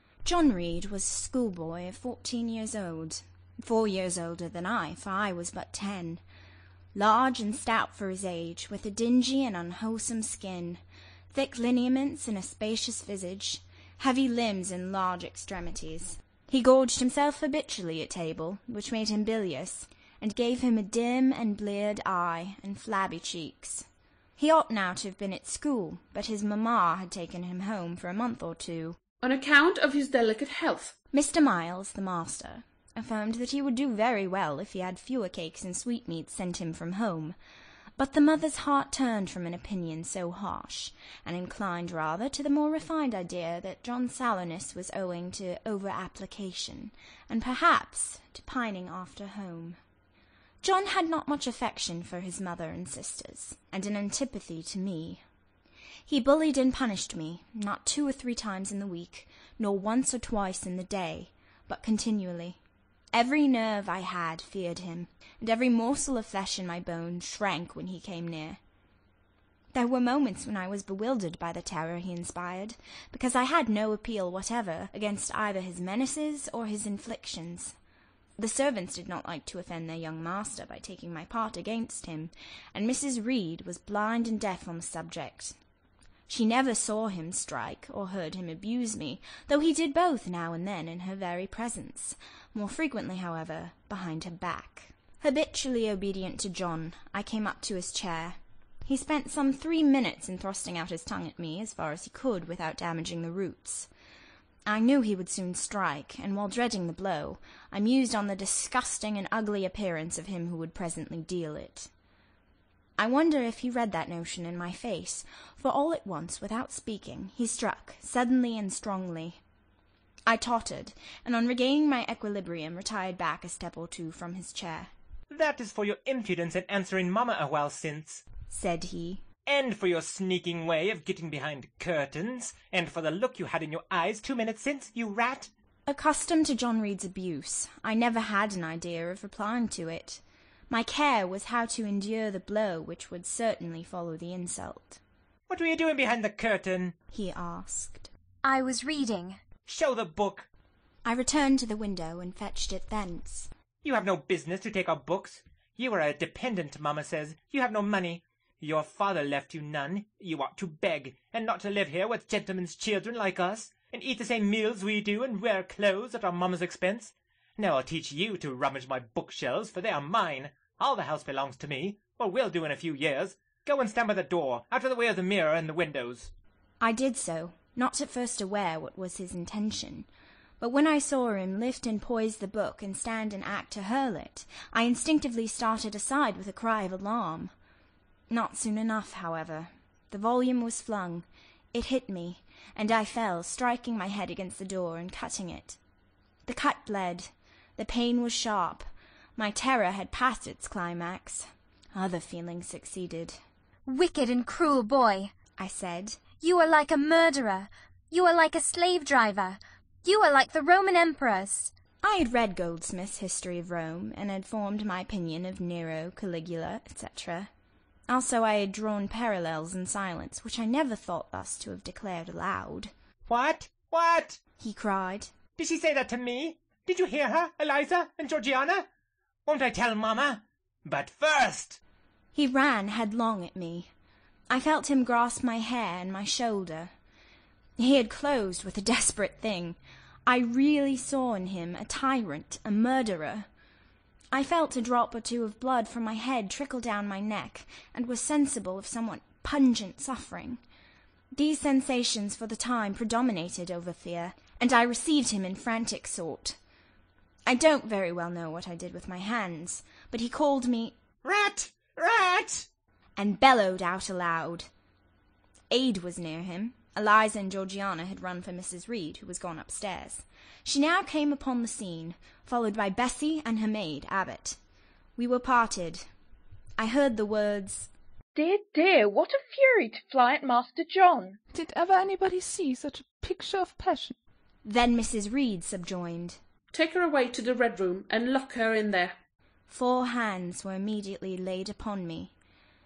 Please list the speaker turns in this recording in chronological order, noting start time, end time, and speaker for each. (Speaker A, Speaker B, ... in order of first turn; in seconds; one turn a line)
Speaker A: 0.2-6.2
Speaker A: 6.9-10.8
Speaker A: 11.3-23.9
Speaker A: 24.4-29.0
Speaker B: 29.2-30.9
Speaker A: 31.1-37.3
Speaker A: 38.0-49.8
Speaker A: 50.6-55.2
Speaker A: 56.1-62.6
Speaker A: 63.1-68.6
Speaker A: 69.7-77.8
Speaker A: 78.4-85.6
Speaker A: 86.3-103.9
Speaker A: 104.7-111.9
Speaker A: 113.0-119.4
Speaker A: 120.3-124.9
Speaker C: 125.3-128.2
Speaker A: 128.5-129.2
Speaker C: 129.4-135.5
Speaker A: 135.8-145.0
Speaker C: 145.5-146.9
Speaker A: 147.1-148.1
Speaker D: 148.4-149.4
Speaker C: 149.7-150.5
Speaker A: 151.0-153.5
Speaker C: 153.8-176.3
Speaker A: 176.8-180.1
Speaker A: 180.6-187.5
Speaker A: 188.3-195.8
Speaker A: 196.4-203.4
Speaker D: 203.8-205.3
Speaker A: 205.6-206.3
Speaker D: 206.4-211.7
Speaker A: 212.0-217.5
Speaker A: 218.1-222.9
Speaker C: 223.3-224.4
Speaker A: 224.6-225.3
Speaker C: 225.6-228.8
Speaker C: 229.4-231.8
Speaker A: 232.3-233.9
Speaker A: 234.5-236.9
Speaker A: 237.8-243.5
Speaker A: 244.3-250.6
Speaker A: 251.4-256.6
Speaker A: 257.4-260.9
Speaker C: 261.2-262.7
Speaker A: 263.2-264.7
Speaker A: 265.7-274.6
Speaker A: 275.2-276.1
Speaker A: 276.8-277.9
Speaker E: 278.4-281.3
Speaker F: 281.5-284.1
Speaker A: 284.6-286.4
Speaker B: 286.7-289.1
Speaker A: 289.7-292.3